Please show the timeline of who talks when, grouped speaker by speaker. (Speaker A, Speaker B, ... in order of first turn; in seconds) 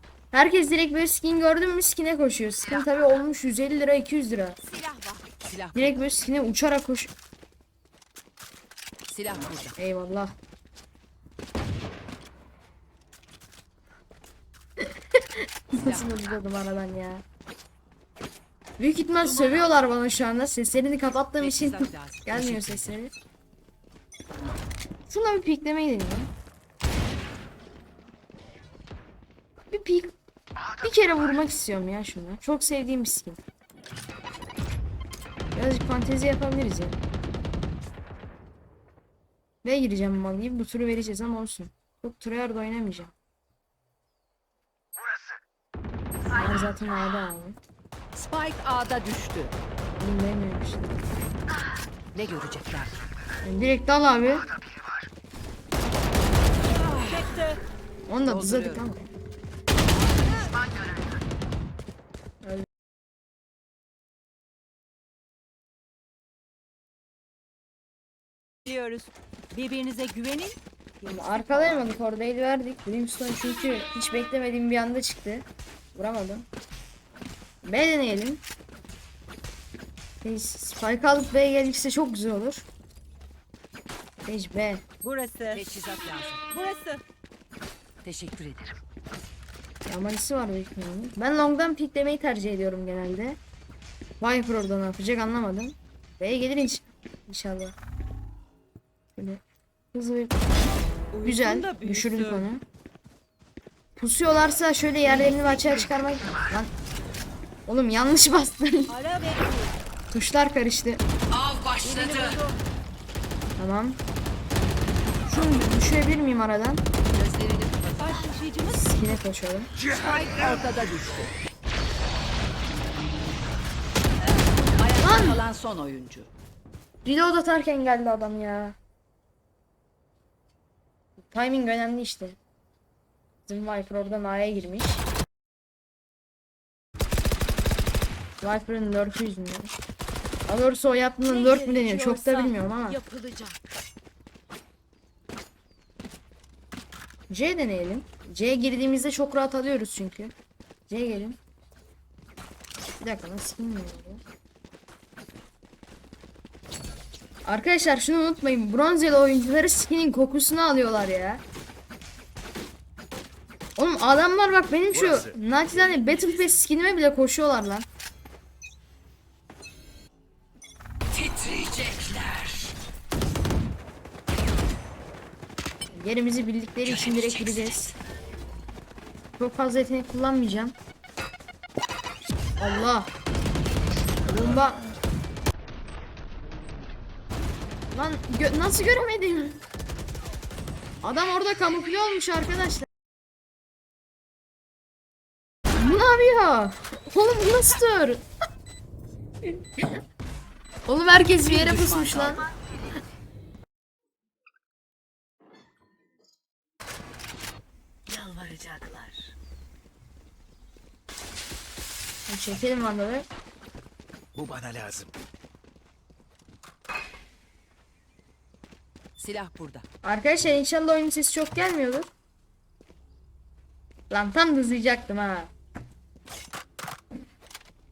Speaker A: 0.3-4.6, 5.8-7.1, 9.8-10.3, 14.8-17.2, 18.8-23.1, 25.1-26.3, 29.7-30.1, 30.8-33.4, 35.5-37.0, 39.6-43.1, 46.3-47.6, 50.0-50.9, 53.4-54.5, 58.1-59.1, 71.0-76.5, 77.6-78.4, 80.2-82.7, 84.3-84.8, 89.9-93.4, 94.2-97.8, 99.2-99.4, 99.9-100.4, 101.2-102.6, 104.0-106.7, 107.7-109.0, 110.1-111.0, 113.6-114.0, 115.3-116.8, 118.7-119.7, 125.0-125.4, 127.0-128.8, 131.2-132.4, 133.5-135.0, 138.4-139.7, 140.5-143.0, 147.3-150.3, 150.9-151.4, 153.0-154.2, 157.4-161.4, 163.8-167.9, 175.9-177.9, 179.4-180.8, 182.6-183.1, 184.3-184.8, 187.9-189.6, 191.0-192.9, 195.8-198.2, 200.9-202.4, 212.3-213.3, 220.0-222.1, 224.1-225.5
Speaker B: 4.6-5.3, 19.3-19.7, 56.8-57.6, 60.1-60.5, 68.7-72.0, 85.0-85.8, 86.5-87.0, 101.1-102.5, 105.1-105.9, 108.9-109.8, 111.8-112.6, 118.0-119.2, 120.0-120.4, 141.2-143.6
Speaker C: 5.4-6.0, 9.1-9.8, 15.8-16.2, 21.4-23.0, 48.1-49.5, 52.1-53.0, 56.7-57.4, 58.2-58.9, 85.5-86.4, 88.0-88.8, 111.3-112.4, 115.3-115.7, 117.1-118.3, 119.9-121.3, 124.7-126.3, 171.2-172.5, 176.8-177.8, 201.4-202.4, 219.2-219.8
Speaker D: 119.9-120.7, 164.9-165.4, 214.3-215.2
Speaker E: 165.7-166.6, 208.1-209.3